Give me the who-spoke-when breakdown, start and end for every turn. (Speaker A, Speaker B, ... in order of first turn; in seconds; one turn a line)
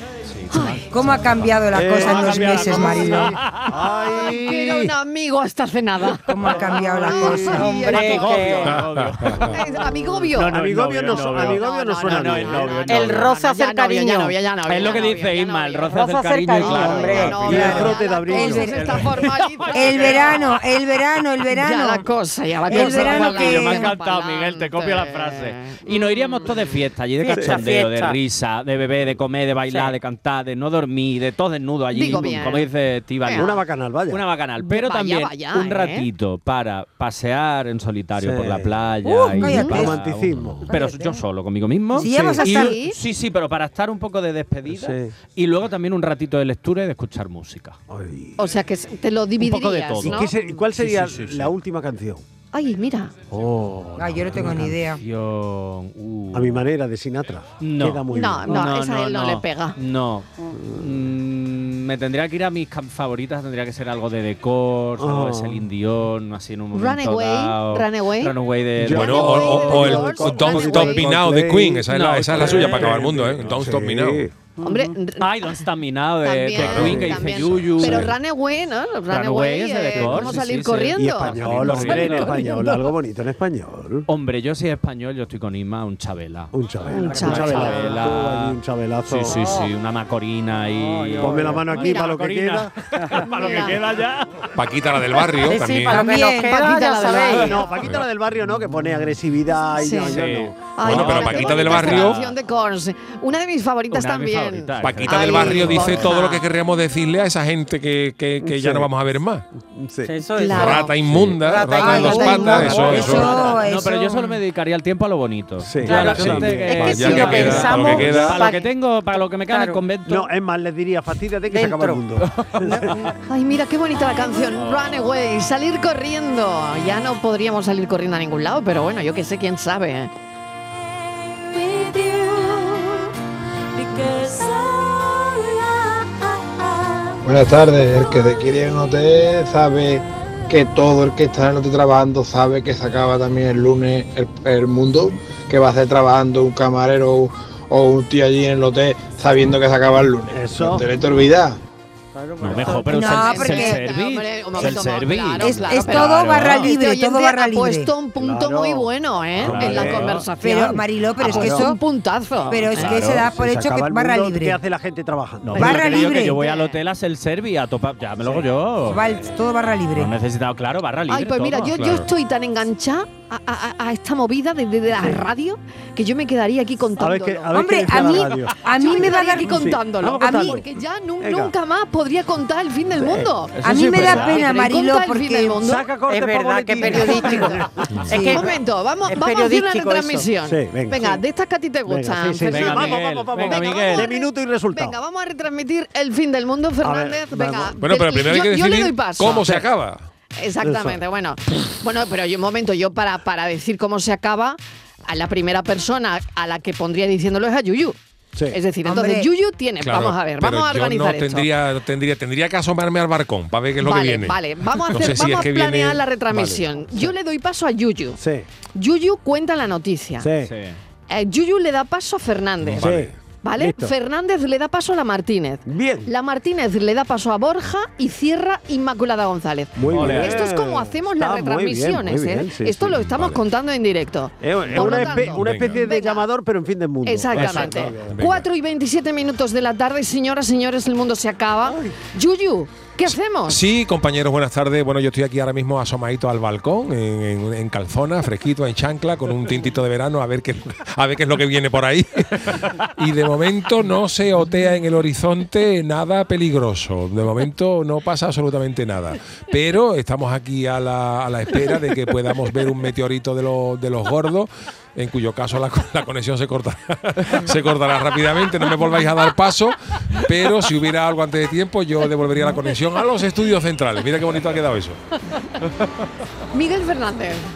Speaker A: 0.2-3.7
Speaker B: 0.5-0.8
Speaker C: 0.9-3.4
Speaker D: 1.7-4.9
Speaker B: 4.1-8.7
Speaker C: 6.2-7.8
Speaker A: 7.2-9.6
Speaker E: 7.3-8.8
Speaker F: 9.2-9.5
Speaker B: 9.5-10.5
Speaker A: 10.3-13.3
Speaker D: 10.4-12.9
Speaker B: 11.1-15.9
Speaker E: 12.9-14.3
Speaker A: 14.7-18.0
Speaker E: 15.9-17.4
Speaker B: 16.6-20.5
Speaker D: 16.7-19.0
Speaker C: 17.5-19.1
Speaker A: 18.5-20.2
Speaker C: 19.7-22.1
Speaker B: 21.5-26.5
Speaker C: 22.7-23.9
Speaker A: 22.7-47.8
Speaker E: 27.2-28.2
Speaker D: 27.3-27.6
Speaker E: 29.7-29.9
Speaker B: 31.9-32.7
Speaker D: 33.3-34.2
Speaker B: 34.6-36.0
Speaker D: 38.2-38.9
Speaker C: 39.0-40.0
Speaker B: 39.4-39.8
Speaker D: 39.7-40.7
Speaker C: 40.7-41.2
Speaker C: 42.0-42.7
Speaker D: 42.0-42.5
Speaker B: 42.4-43.0
Speaker D: 44.7-45.1
Speaker D: 47.9-48.4
Speaker B: 48.4-50.4
Speaker A: 49.4-51.5
Speaker D: 50.0-52.2
Speaker B: 52.5-53.1
Speaker A: 53.3-56.6
Speaker D: 53.3-53.8
Speaker C: 54.0-55.0
Speaker D: 54.3-54.7
Speaker D: 56.3-58.6
Speaker A: 57.6-69.5
Speaker B: 58.1-59.8
Speaker D: 60.5-60.9
Speaker D: 65.0-65.7
Speaker B: 66.7-68.3
Speaker D: 68.8-74.3
Speaker F: 68.9-74.3
Speaker B: 68.9-71.1
Speaker A: 71.9-73.0
Speaker E: 74.6-74.9
Speaker B: 74.6-75.2
Speaker A: 75.2-78.2
Speaker B: 76.2-82.7
Speaker F: 76.6-77.1
Speaker D: 76.7-77.7
Speaker A: 79.1-82.6
Speaker D: 80.1-80.3
Speaker D: 80.9-84.1
Speaker A: 84.1-94.5
Speaker D: 86.5-89.5
Speaker B: 86.9-87.9
Speaker E: 90.8-91.5
Speaker D: 91.2-92.7
Speaker B: 91.7-92.1
Speaker B: 93.3-93.8
Speaker F: 94.5-96.1
Speaker E: 95.4-97.7
Speaker C: 95.9-97.0
Speaker B: 96.3-97.7
Speaker D: 97.3-101.8
Speaker B: 99.8-100.2
Speaker A: 100.1-102.3
Speaker B: 100.7-106.5
Speaker F: 100.8-102.2
Speaker A: 103.9-106.1
Speaker F: 104.8-109.4
Speaker D: 108.4-108.9
Speaker D: 109.6-110.1
Speaker E: 110.1-113.3
Speaker B: 110.4-110.9
Speaker F: 110.5-113.3
Speaker D: 111.1-111.3
Speaker C: 111.7-114.3
Speaker B: 111.8-113.2
Speaker A: 112.8-120.3
Speaker D: 115.6-118.3
Speaker E: 115.8-119.8
Speaker F: 116.2-118.4
Speaker D: 120.0-122.9
Speaker E: 121.5-122.0
Speaker A: 122.2-123.0
Speaker E: 122.6-123.0
Speaker B: 123.3-130.1
Speaker A: 124.5-125.1
Speaker G: 137.2-151.6
Speaker D: 150.3-150.9
Speaker E: 152.1-153.1
Speaker A: 152.4-156.7
Speaker C: 152.9-153.8
Speaker B: 153.1-162.8
Speaker C: 155.4-157.9
Speaker D: 158.2-160.2
Speaker A: 159.4-160.2
Speaker C: 160.4-161.8
Speaker D: 161.2-161.7
Speaker C: 162.5-164.6
Speaker A: 162.7-163.3
Speaker D: 162.9-166.0
Speaker A: 165.4-169.0
Speaker C: 165.6-166.4
Speaker B: 166.4-166.7
Speaker D: 168.2-168.5
Speaker C: 168.9-170.1
Speaker A: 169.9-171.8
Speaker B: 171.1-185.8
Speaker F: 171.7-172.1
Speaker D: 177.0-180.7
Speaker C: 177.5-179.7
Speaker C: 180.2-180.6
Speaker D: 181.2-181.5
Speaker D: 182.9-183.3
Speaker A: 183.5-184.4
Speaker C: 183.6-185.7
Speaker D: 185.6-188.0
Speaker E: 186.1-190.3
Speaker C: 188.1-188.4
Speaker B: 188.2-199.5
Speaker D: 190.4-191.2
Speaker D: 191.8-195.0
Speaker A: 192.5-194.1
Speaker D: 196.8-197.8
Speaker F: 197.8-200.1
Speaker B: 200.3-208.0
Speaker D: 200.6-201.0
Speaker B: 208.5-211.5
Speaker C: 208.8-209.3
Speaker F: 209.8-216.0
Speaker B: 213.8-218.2
Speaker D: 216.3-217.1
Speaker D: 218.2-218.4
Speaker B: 218.7-220.3
Speaker D: 220.2-220.5
Speaker A: 220.4-220.8
Speaker B: 221.1-222.8
Speaker F: 222.6-223.1
Speaker D: 222.8-223.9
Speaker B: 223.4-236.2
Speaker D: 225.7-226.1
Speaker D: 229.8-233.3
Speaker A: 229.9-230.5
Speaker D: 234.4-238.2
Speaker F: 235.3-235.8
Speaker B: 237.0-243.6
Speaker F: 238.1-238.5
Speaker D: 241.7-241.9
Speaker F: 243.5-275.0
Speaker B: 276.5-277.4